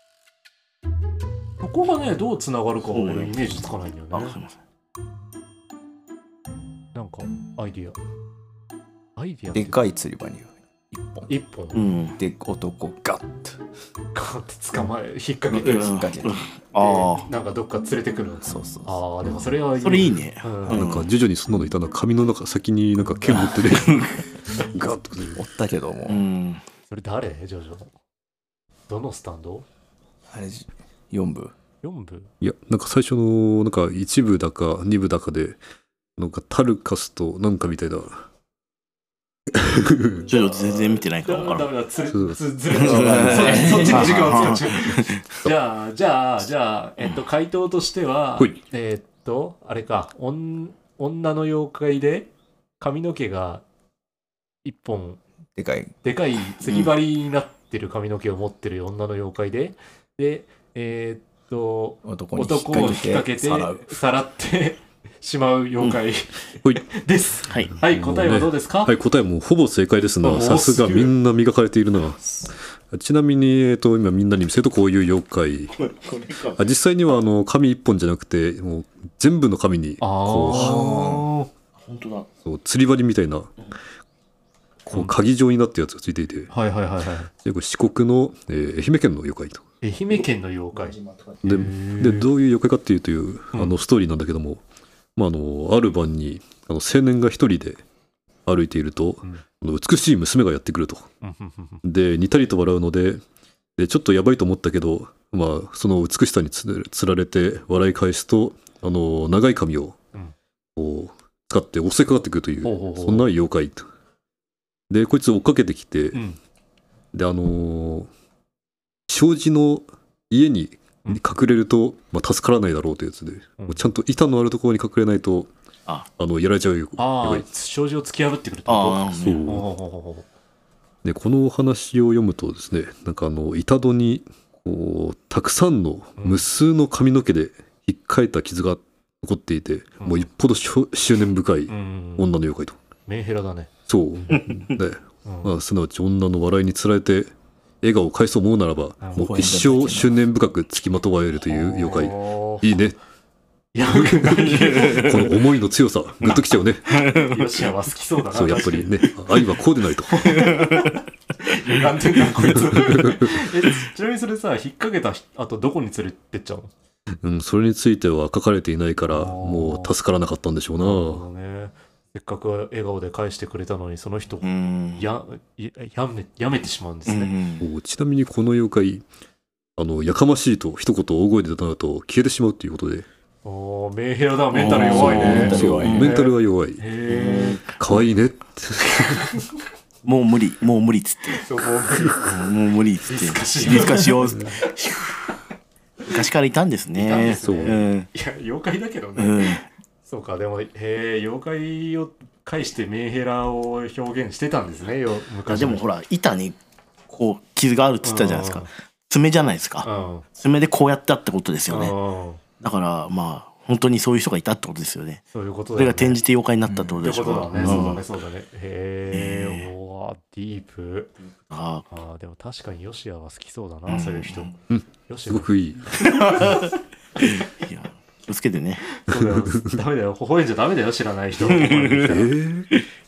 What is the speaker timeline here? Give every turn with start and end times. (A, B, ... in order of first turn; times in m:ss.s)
0:01.6-0:04.4 A
0:02.9-0:03.4 B
0:04.1-0:04.5 B
0:06.9-0:08.0 A
0:09.2-0:09.8 A
0:09.5-0:11.3 C
0:11.3-0:11.9 A
0:11.7-0:12.2 B
0:12.2-0:13.6 C
0:14.1-0:15.9 A
0:15.6-0:16.4 C
0:15.6-0:17.3 B
0:16.8-0:20.8 A
0:18.4-0:19.0 C
0:19.8-0:21.1 B
0:20.7-0:25.4 D
0:24.8-0:26.2 C
0:26.1-0:26.6 B
0:26.9-0:27.9 A
0:28.9-0:29.6 A
0:30.3-0:31.5 C
0:31.8-0:32.3 A
0:32.4-0:35.6 D
0:36.2-0:38.2 D
0:39.5-0:40.2 D
0:40.3-0:41.7 B
0:40.3-0:53.6 A
0:42.1-0:43.4 D
0:42.7-0:45.2 B
0:42.8-0:44.6 C
0:54.6-0:55.2 A
0:55.5-0:55.9 C
0:56.0-1:09.0 A
0:56.6-0:56.9 B
1:02.0-1:04.0 C
1:07.8-1:12.3 D
1:10.2-1:11.1 A
1:12.9-1:15.8 D
1:15.8-1:16.6 B
1:16.6-1:20.8 D
1:20.0-1:21.5 A
1:20.5-1:21.3 C
1:21.8-1:22.3 B
1:22.4-1:23.5 D
1:24.8-1:26.5 D
1:26.5-1:27.3 A
1:27.4-1:29.6 D
1:29.8-1:32.3 A
1:31.4-1:34.6 D
1:35.2-1:37.8 D
1:38.4-1:41.1 D
1:41.2-1:41.8 A
1:41.8-1:43.2 D
1:43.8-1:50.0 D
1:50.8-1:53.8 D
1:52.6-1:53.2 A
1:54.9-1:56.2 D
1:56.1-1:56.4 A
1:57.1-1:58.1 D
1:59.1-2:05.5 D
2:03.6-2:03.9 A
2:06.2-2:07.5 D
2:07.0-2:10.2 A
2:08.7-2:09.6 B
2:09.2-2:09.6 D
2:11.0-2:22.8 D
2:16.2-2:16.4 A
2:20.0-2:20.3 A
2:21.7-2:22.3 A
2:23.0-2:23.7 A
2:23.9-2:33.0 D
2:24.3-2:24.7 B
2:25.2-2:25.5 A
2:29.0-2:29.5 A
2:29.2-2:30.2 C
2:31.5-2:32.7 A
2:33.7-2:35.3 A
2:33.8-2:36.9 D
2:34.5-2:35.0 B
2:36.2-2:37.7 B
2:37.0-2:39.0 A
2:38.3-2:40.5 D
2:40.1-2:46.7 A
2:40.3-2:40.8 B
2:42.4-2:43.4 D
2:47.2-2:51.2 D
2:49.1-2:49.9 A
2:50.8-2:57.3 A
2:54.4-2:55.0 B
2:57.1-2:57.6 B
2:57.6-2:59.0 D
2:59.8-3:03.1 D
3:03.4-3:07.6 A
3:04.5-3:06.2 B
3:04.7-3:06.8 D
3:04.8-3:06.1 C
3:07.1-3:07.8 B
3:07.7-3:09.1 D
3:08.9-3:09.5 A
3:10.0-3:11.4 B
3:11.4-3:12.3 A
3:12.2-3:15.3 B
3:13.1-3:14.5 A
3:16.0-3:18.1 B
3:17.0-3:19.5 A
3:17.2-3:17.8 D
3:19.2-3:19.7 B
3:20.0-3:25.8 A
3:25.5-3:26.6 B
3:27.1-3:31.9 B
3:28.0-3:28.7 A
3:29.8-3:30.3 A
3:31.7-3:32.4 A
3:32.6-3:35.2 B
3:35.3-3:36.2 A
3:35.8-3:38.0 B
3:36.6-3:37.0 C
3:37.0-3:41.1 A
3:39.1-3:39.7 B
3:41.5-3:41.8 B
3:41.9-3:44.5 A
3:43.9-3:44.5 B
3:44.7-3:46.5 D
3:45.1-3:46.6 A
3:46.0-3:48.8 B
3:48.9-3:52.3 A
3:49.1-3:49.8 D
3:51.4-3:52.2 B
3:52.0-3:52.8 D